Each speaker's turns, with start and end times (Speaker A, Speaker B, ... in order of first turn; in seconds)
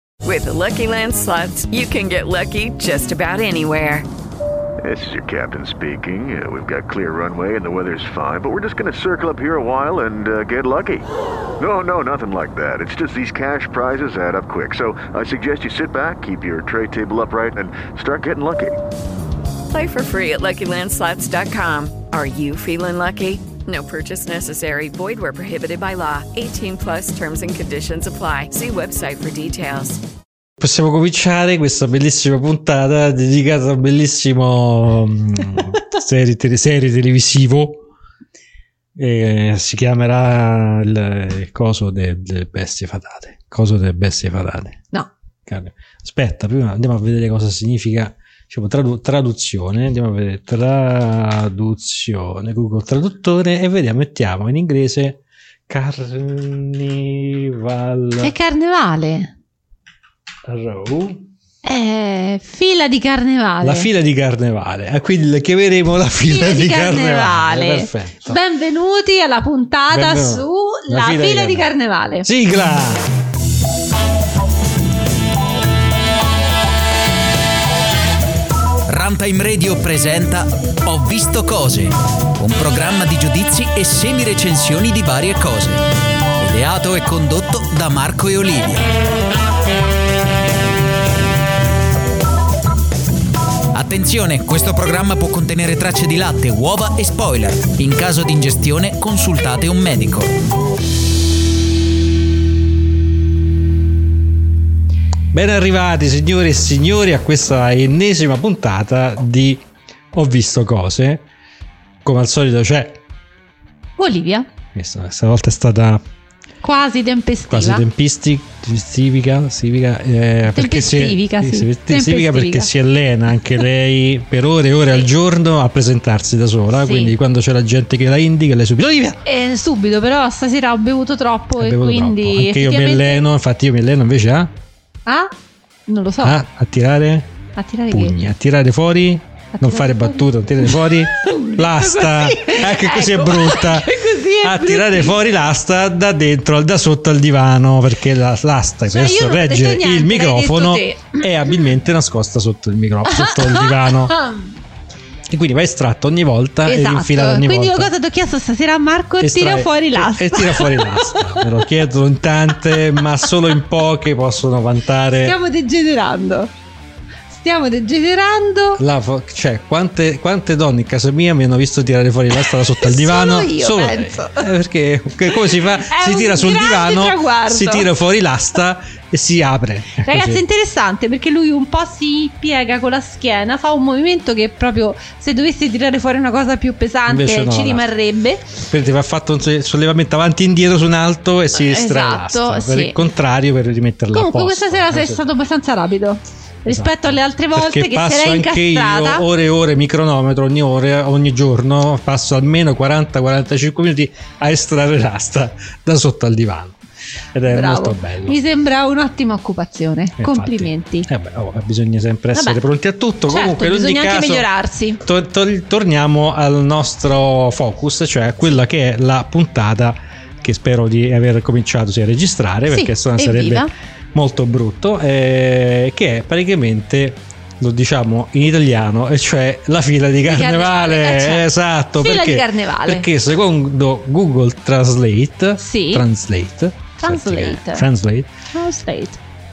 Speaker A: 0.2-4.1, 19.7-30.0
Speaker B: 4.8-11.1, 11.6-18.8
Speaker C: 30.6-37.8, 39.0-44.8, 45.5-58.3, 60.4-61.2, 63.6-68.4, 69.9-71.7, 72.2-73.1, 105.3-111.2, 112.0-113.0, 114.7-116.0, 117.5-129.2, 131.6-134.5, 136.2-137.3, 137.9-154.1, 155.3-157.9, 159.2-165.4, 168.8-180.4, 187.1-187.9, 188.7-195.2, 196.7-206.8, 207.3-208.4, 210.2-214.5, 215.0-238.3
Speaker D: 58.2-59.3, 61.6-63.9, 66.2-72.3, 114.0-114.5, 116.6-117.9, 120.5-122.7, 126.7-127.1, 129.2-133.2, 135.1-135.3, 135.9-136.4, 137.6-138.1, 139.5-145.2, 148.9-151.5, 153.1-154.6, 156.6-161.6, 162.6-163.0, 165.2-166.5, 167.3-168.8, 172.6-174.5, 175.3-177.9, 180.0-188.5, 191.5-193.0, 194.1-199.2, 207.5-211.1, 212.3-212.6, 213.2-215.0, 222.7-223.7, 230.2-233.1, 235.6-236.1, 237.0-237.9, 238.5-239.2
Speaker E: 78.9-85.8, 86.4-88.9, 93.7-100.3